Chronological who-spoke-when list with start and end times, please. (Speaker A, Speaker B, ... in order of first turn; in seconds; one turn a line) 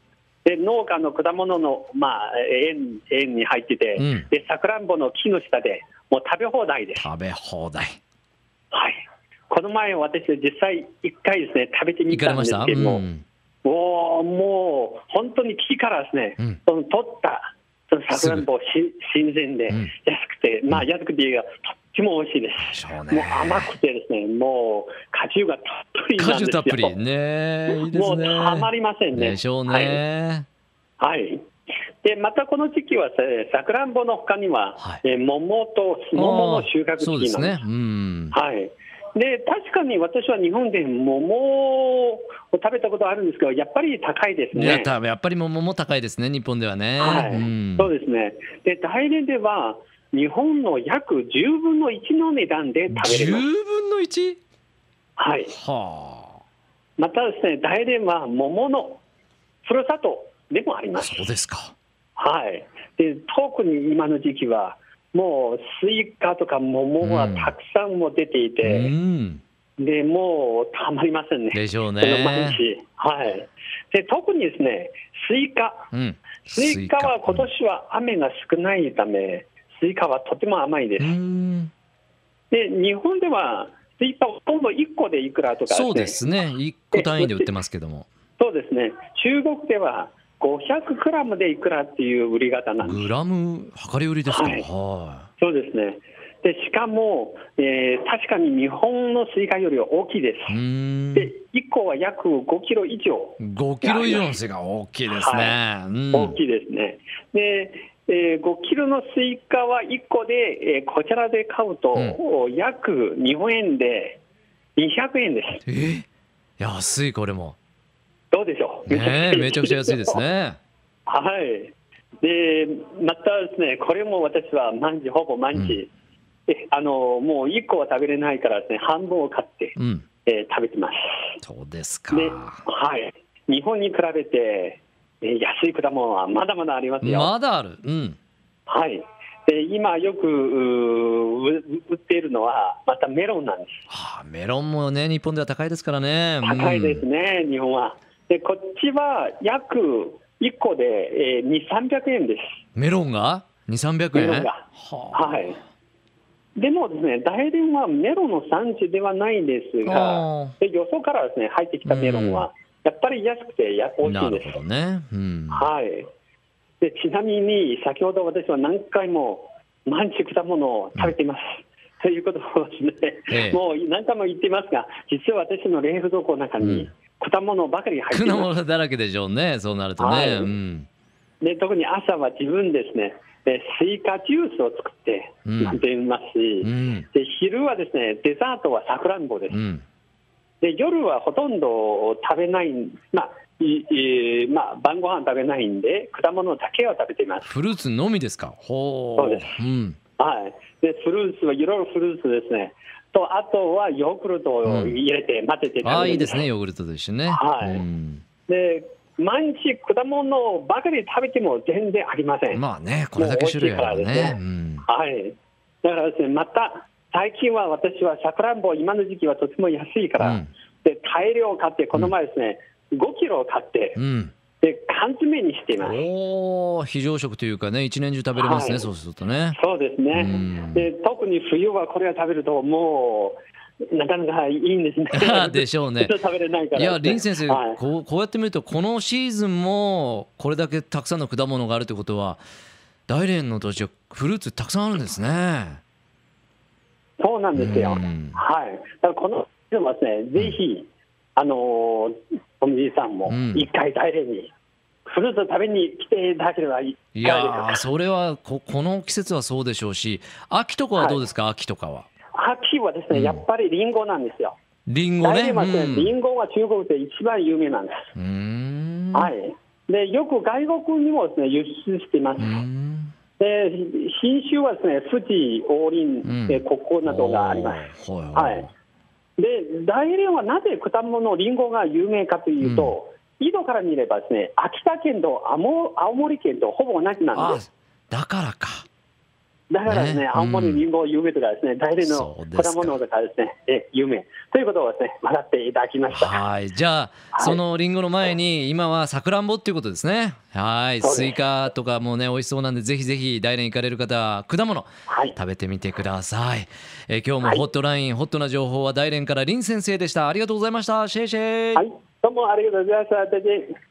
Speaker A: 0.4-7.0
Speaker B: 4.0-4.3
Speaker B: 7.0-8.0
Speaker A: 8.7-9.0
Speaker A: 9.5-13.1
Speaker B: 12.1-13.2
Speaker A: 13.6-26.9
Speaker B: 18.1-18.4
Speaker B: 22.6-23.7
Speaker B: 26.2-30.4
Speaker A: 27.7-30.0
Speaker A: 31.0-31.4
Speaker A: 32.0-37.6
Speaker B: 36.1-38.4
Speaker A: 38.3-44.9
Speaker B: 44.5-47.9
Speaker A: 47.0-53.5
Speaker B: 52.9-54.4
Speaker A: 55.2-55.5
Speaker B: 55.5-56.4
Speaker A: 57.0-59.0
Speaker A: 59.6-61.2
Speaker B: 61.0-61.7
Speaker A: 62.2-68.9
Speaker B: 67.0-67.5
Speaker B: 68.6-69.4
Speaker A: 69.8-75.9
Speaker B: 71.5-72.6
Speaker B: 75.9-77.5
Speaker A: 76.5-81.1
Speaker B: 81.0-81.7
Speaker A: 82.5-86.2
Speaker B: 85.7-88.1
Speaker A: 86.9-87.5
Speaker A: 88.4-93.0
Speaker B: 92.8-95.3
Speaker A: 94.3-94.6
Speaker A: 95.4-100.6
Speaker B: 100.5-101.3
Speaker A: 101.1-104.3
Speaker B: 103.4-106.3
Speaker A: 105.1-105.6
Speaker A: 106.1-114.2
Speaker A: 114.8-115.6
Speaker B: 115.7-116.1
Speaker B: 116.6-117.5
Speaker A: 118.3-120.2
Speaker B: 118.9-120.6
Speaker A: 121.1-125.9
Speaker B: 125.5-125.8
Speaker A: 126.5-129.7
Speaker B: 129.8-130.0
Speaker A: 130.2-131.3
Speaker B: 131.4-132.6
Speaker A: 132.1-137.3
Speaker B: 137.0-138.2
Speaker A: 138.7-143.9
Speaker B: 143.9-147.0
Speaker A: 146.4-152.6
Speaker B: 152.7-155.5
Speaker A: 154.1-155.6
Speaker A: 156.6-164.6
Speaker B: 159.8-160.6
Speaker B: 161.8-162.4
Speaker B: 164.0-165.7
Speaker A: 165.5-166.1
Speaker A: 166.8-178.5
Speaker B: 173.3-173.6
Speaker B: 176.6-176.9
Speaker B: 178.1-180.9
Speaker A: 180.0-180.5
Speaker A: 181.4-189.6
Speaker B: 185.4-185.8
Speaker B: 186.6-187.1
Speaker B: 189.5-189.8
Speaker A: 190.6-197.4
Speaker B: 197.4-200.0
Speaker A: 199.2-199.5
Speaker A: 200.2-206.4
Speaker B: 204.6-205.0
Speaker B: 205.8-208.2
Speaker A: 207.3-207.8
Speaker A: 208.5-212.6
Speaker B: 212.5-214.8
Speaker A: 213.2-224.0
Speaker B: 220.2-220.5
Speaker B: 223.9-224.3
Speaker A: 224.6-226.0
Speaker B: 225.8-229.6
Speaker A: 228.3-228.9
Speaker A: 229.5-233.4
Speaker B: 230.1-230.9
Speaker A: 233.9-237.8
Speaker B: 235.1-236.1
Speaker B: 236.7-242.4
Speaker B: 243.1-245.8
Speaker A: 247.2-254.5
Speaker B: 247.6-248.4
Speaker B: 253.3-253.7
Speaker A: 255.1-257.8
Speaker B: 257.1-262.1
Speaker A: 261.0-261.2
Speaker A: 262.3-264.5
Speaker B: 263.1-263.4
Speaker B: 264.9-266.1
Speaker A: 265.2-268.0
Speaker B: 268.1-269.3
Speaker A: 269.1-272.6
Speaker B: 272.4-273.1
Speaker A: 273.4-278.6
Speaker B: 276.2-278.7
Speaker A: 279.4-287.6
Speaker B: 282.6-282.9
Speaker B: 287.3-288.9
Speaker A: 289.7-296.4
Speaker B: 289.9-290.8
Speaker B: 292.0-293.0
Speaker B: 296.1-311.9
Speaker A: 297.3-297.6
Speaker A: 301.0-301.4
Speaker A: 305.1-305.4
Speaker A: 311.8-313.7